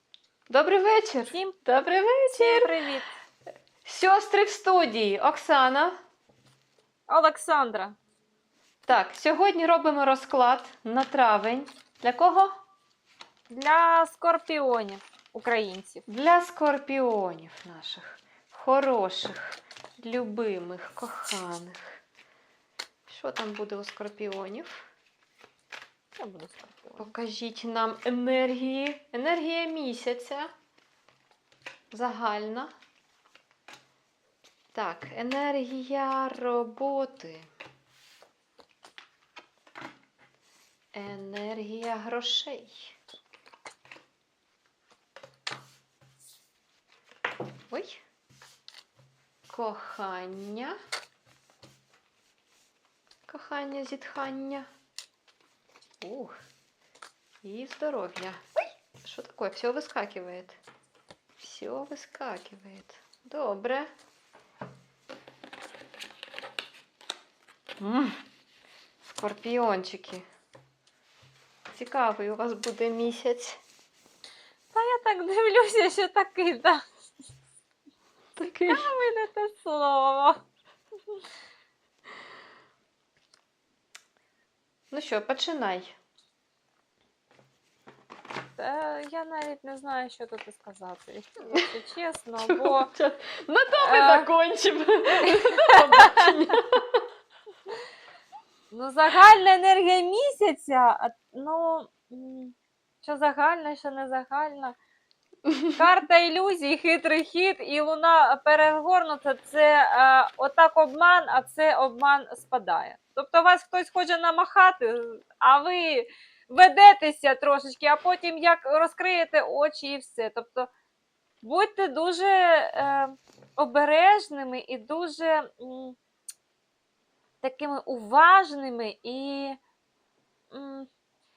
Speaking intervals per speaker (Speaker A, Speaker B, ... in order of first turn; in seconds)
Speaker A: 0.5-2.7, 3.9-6.0, 8.9-12.5, 16.1-22.0, 23.1-24.9, 27.0-30.5, 31.9-32.7, 34.7-37.5, 40.9-43.0, 47.7-48.0, 49.5-50.8, 53.3-54.7, 56.0-56.4, 57.4-58.4, 59.0-60.6, 61.4-63.9, 67.8-68.2, 69.0-70.2, 71.7-73.6, 78.4-78.9, 84.9-86.0, 92.4-97.0, 105.5-105.8
Speaker B: 1.3-1.6, 2.3-3.1, 7.1-8.0, 13.5-16.0, 26.2-27.1, 74.7-76.9, 78.7-80.4, 88.6-92.9, 93.8-94.3, 95.2-96.3, 98.7-104.8, 105.8-120.7, 121.4-126.0, 127.4-129.6, 130.5-130.9